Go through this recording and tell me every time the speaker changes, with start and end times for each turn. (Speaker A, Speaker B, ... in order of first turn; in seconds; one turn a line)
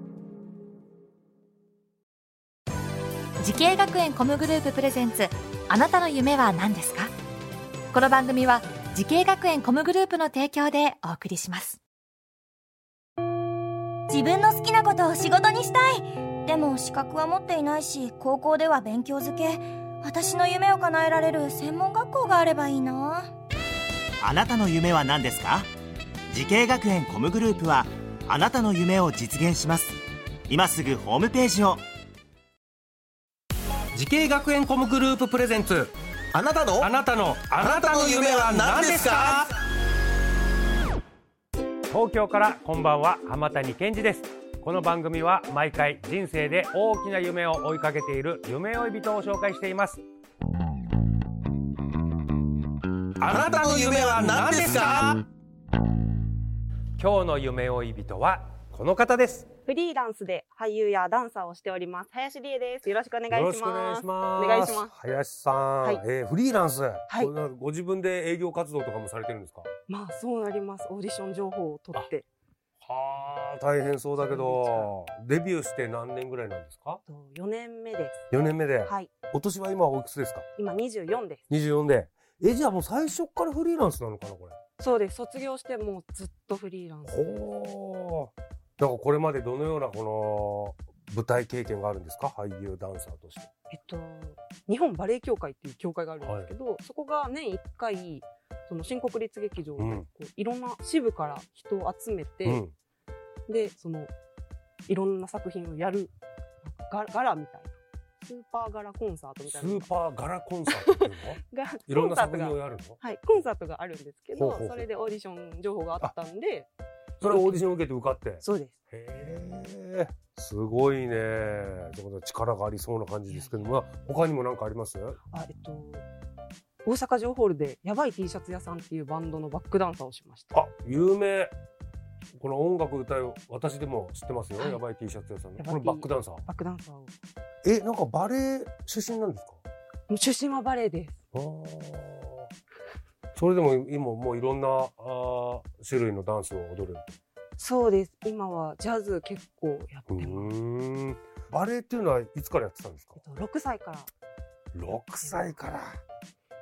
Speaker A: 3.4-7.1
Speaker A: 7.9-11.8
Speaker B: 14.1-23.3
Speaker C: 24.2-25.7
Speaker C: 26.3-31.8
Speaker D: 33.9-35.9
Speaker E: 36.3-36.9
Speaker D: 36.8-39.4
Speaker E: 37.6-39.5
Speaker D: 41.9-50.0
Speaker D: 53.2-55.1
Speaker E: 53.2-55.2
Speaker D: 57.0-59.5
Speaker F: 59.6-64.9
Speaker D: 63.3-69.7
Speaker F: 67.1-67.3
Speaker F: 69.9-72.2
Speaker D: 72.8-77.0
Speaker F: 74.2-74.9
Speaker F: 77.1-78.2
Speaker D: 78.3-80.4
Speaker F: 78.8-79.1
Speaker F: 80.5-81.4
Speaker D: 81.5-84.5
Speaker F: 84.8-87.4
Speaker D: 87.1-93.5
Speaker F: 93.7-102.6
Speaker D: 96.2-96.5
Speaker D: 99.8-100.0
Speaker D: 102.4-102.7
Speaker F: 103.5-104.1
Speaker F: 104.8-106.1
Speaker F: 106.6-109.9
Speaker D: 109.5-113.0
Speaker F: 110.7-116.7
Speaker D: 114.3-114.8
Speaker D: 117.2-125.2
Speaker F: 117.2-117.6
Speaker F: 118.4-118.8
Speaker F: 123.3-123.8
Speaker F: 125.3-126.0
Speaker F: 126.8-130.6
Speaker D: 130.5-131.5
Speaker D: 132.4-136.4
Speaker F: 135.6-137.1
Speaker D: 137.6-139.6
Speaker F: 140.1-141.2
Speaker D: 141.3-142.5
Speaker D: 143.3-147.2
Speaker F: 147.6-150.5
Speaker D: 150.1-153.2
Speaker F: 153.2-154.1
Speaker D: 154.7-155.9